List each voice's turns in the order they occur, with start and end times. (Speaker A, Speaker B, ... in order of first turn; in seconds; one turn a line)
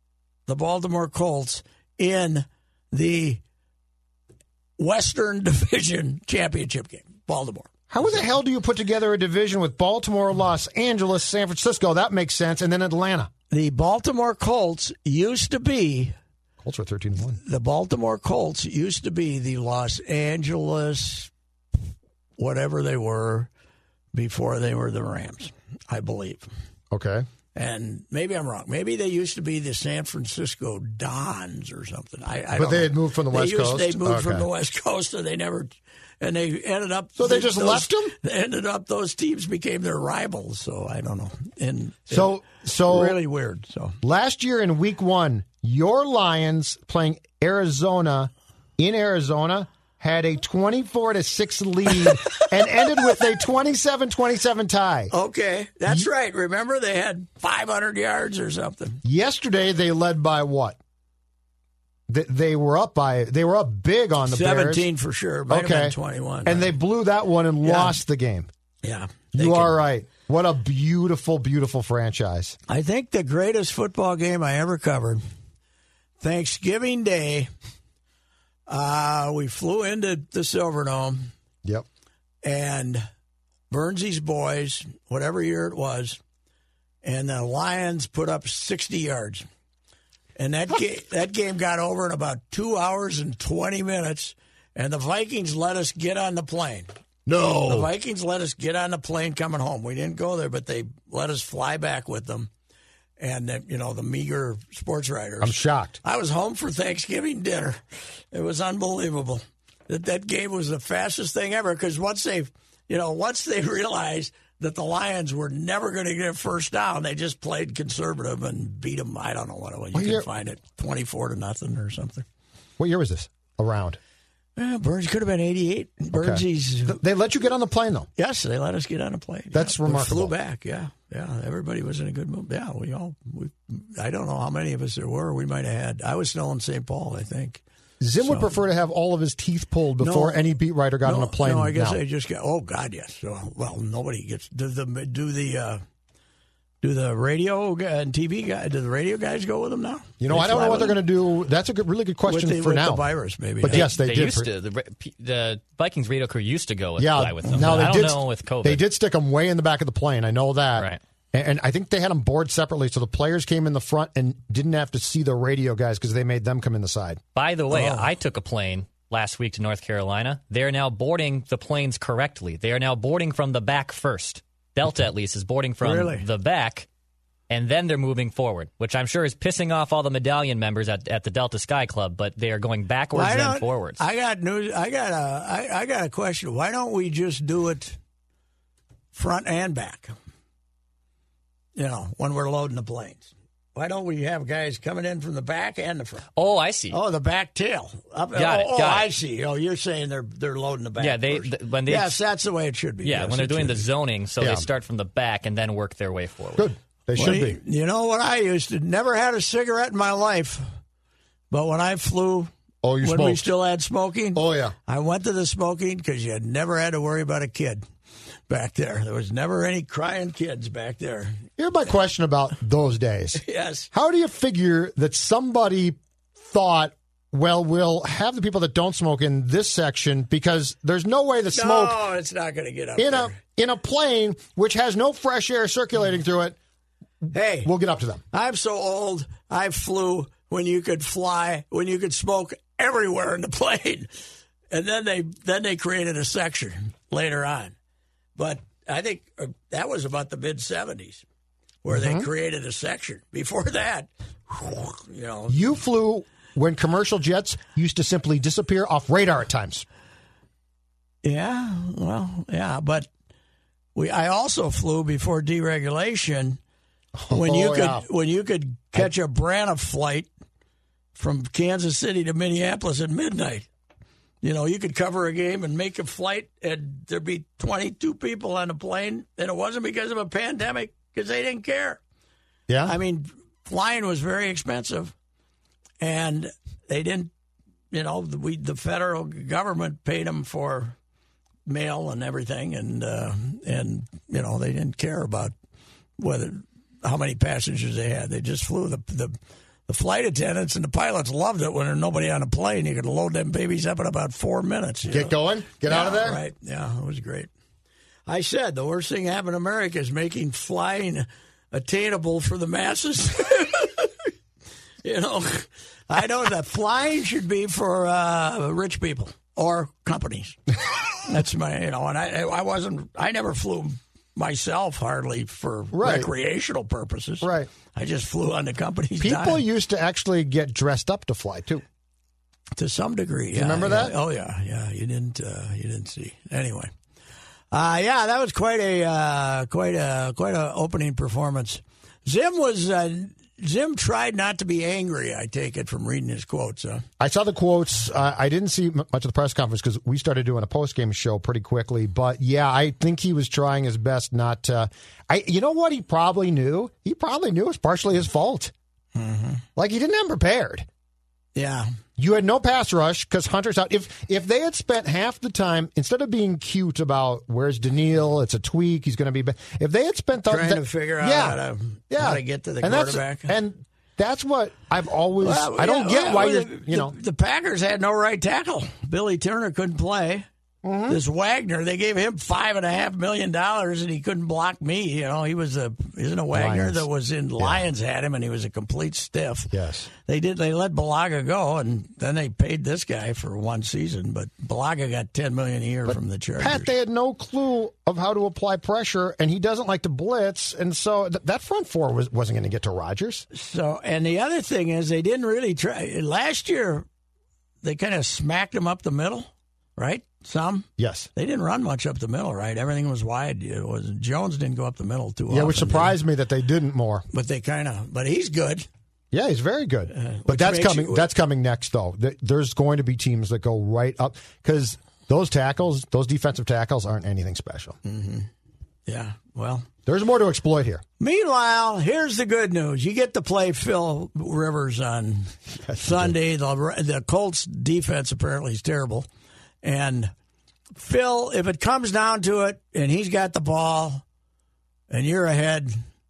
Speaker A: 0.5-3.4
Speaker A: 4.8-8.2
Speaker B: 7.9-13.3
Speaker A: 13.5-16.1
Speaker B: 16.6-17.4
Speaker A: 17.4-21.3
Speaker A: 22.4-23.5
Speaker A: 24.1-26.5
Speaker B: 26.9-27.2
Speaker A: 27.6-44.0
Speaker B: 32.5-34.5
Speaker B: 37.2-38.1
Speaker B: 42.1-43.2
Speaker B: 44.0-55.1
Speaker A: 51.9-53.1
Speaker A: 55.1-59.0
Speaker B: 59.0-60.8
Speaker B: 62.1-64.9
Speaker A: 64.2-66.7
Speaker B: 65.5-68.5
Speaker A: 67.6-68.0
Speaker A: 68.8-69.8
Speaker B: 69.3-72.6
Speaker A: 72.7-75.2
Speaker A: 76.2-77.5
Speaker A: 78.7-81.3
Speaker A: 82.4-83.0
Speaker A: 83.7-86.2
Speaker A: 87.0-89.5
Speaker A: 90.4-96.9
Speaker B: 97.2-97.9
Speaker A: 97.7-102.5
Speaker A: 103.2-122.2
Speaker B: 105.4-106.0
Speaker B: 119.9-120.2
Speaker B: 122.8-124.0
Speaker A: 124.5-127.0
Speaker B: 126.1-128.1
Speaker A: 128.2-137.6
Speaker B: 129.5-130.3
Speaker B: 138.0-142.0
Speaker A: 138.2-138.6
Speaker A: 140.0-145.8
Speaker A: 146.8-151.0
Speaker B: 150.2-153.1
Speaker A: 152.2-153.9
Speaker B: 153.6-154.5
Speaker C: 153.7-158.8
Speaker B: 157.0-167.2
Speaker C: 167.3-176.9
Speaker A: 167.7-168.1
Speaker A: 175.8-176.2
Speaker C: 177.5-184.0
Speaker A: 183.1-188.0
Speaker A: 189.1-190.1
Speaker A: 191.8-196.3
Speaker C: 196.3-197.0
Speaker A: 196.9-203.9
Speaker C: 198.3-199.1
Speaker C: 201.0-202.2
Speaker C: 203.0-206.7
Speaker B: 204.4-204.7
Speaker B: 206.6-207.6
Speaker A: 207.2-210.6
Speaker A: 211.5-212.5
Speaker B: 212.8-213.5
Speaker A: 213.0-217.8
Speaker B: 214.3-214.8
Speaker A: 218.5-221.4
Speaker B: 221.6-232.0
Speaker A: 223.4-223.9
Speaker A: 231.5-233.4
Speaker B: 233.0-236.6
Speaker A: 237.3-237.7
Speaker B: 237.6-238.2
Speaker A: 238.3-244.1
Speaker A: 244.7-247.8
Speaker A: 248.4-251.2
Speaker A: 251.8-255.7
Speaker B: 251.9-252.3
Speaker B: 255.5-259.8
Speaker A: 261.2-263.1
Speaker A: 263.9-266.6
Speaker B: 267.2-268.0
Speaker A: 267.3-270.3
Speaker A: 271.1-273.7
Speaker A: 274.4-282.0
Speaker B: 282.7-282.9
Speaker A: 282.8-285.1
Speaker A: 286.0-287.3
Speaker A: 287.9-291.0
Speaker A: 291.7-295.5
Speaker A: 296.2-299.3
Speaker A: 299.9-307.5
Speaker B: 305.1-306.4
Speaker A: 308.3-314.3
Speaker A: 315.0-320.6
Speaker A: 321.2-329.6
Speaker B: 325.9-326.3
Speaker B: 327.4-327.7
Speaker B: 329.2-331.8
Speaker A: 332.8-336.9
Speaker B: 333.5-334.2
Speaker A: 337.7-347.0
Speaker B: 347.2-358.7
Speaker A: 359.1-359.6
Speaker B: 359.8-360.9
Speaker A: 361.5-361.9
Speaker B: 362.2-371.6
Speaker A: 370.5-373.6
Speaker B: 372.1-377.1
Speaker A: 375.4-380.5
Speaker B: 380.8-381.2
Speaker A: 381.1-396.9
Speaker B: 386.5-387.1
Speaker B: 389.7-390.1
Speaker B: 396.1-403.5
Speaker A: 403.5-407.1
Speaker A: 407.8-416.2
Speaker B: 411.0-411.3
Speaker B: 415.5-417.2
Speaker A: 417.3-418.9
Speaker B: 419.3-428.0
Speaker A: 420.1-421.3
Speaker A: 428.0-428.5
Speaker A: 429.1-429.9
Speaker B: 430.1-431.0
Speaker A: 431.2-439.3
Speaker B: 435.8-436.3
Speaker A: 439.8-440.3
Speaker A: 441.0-444.2
Speaker A: 445.1-446.0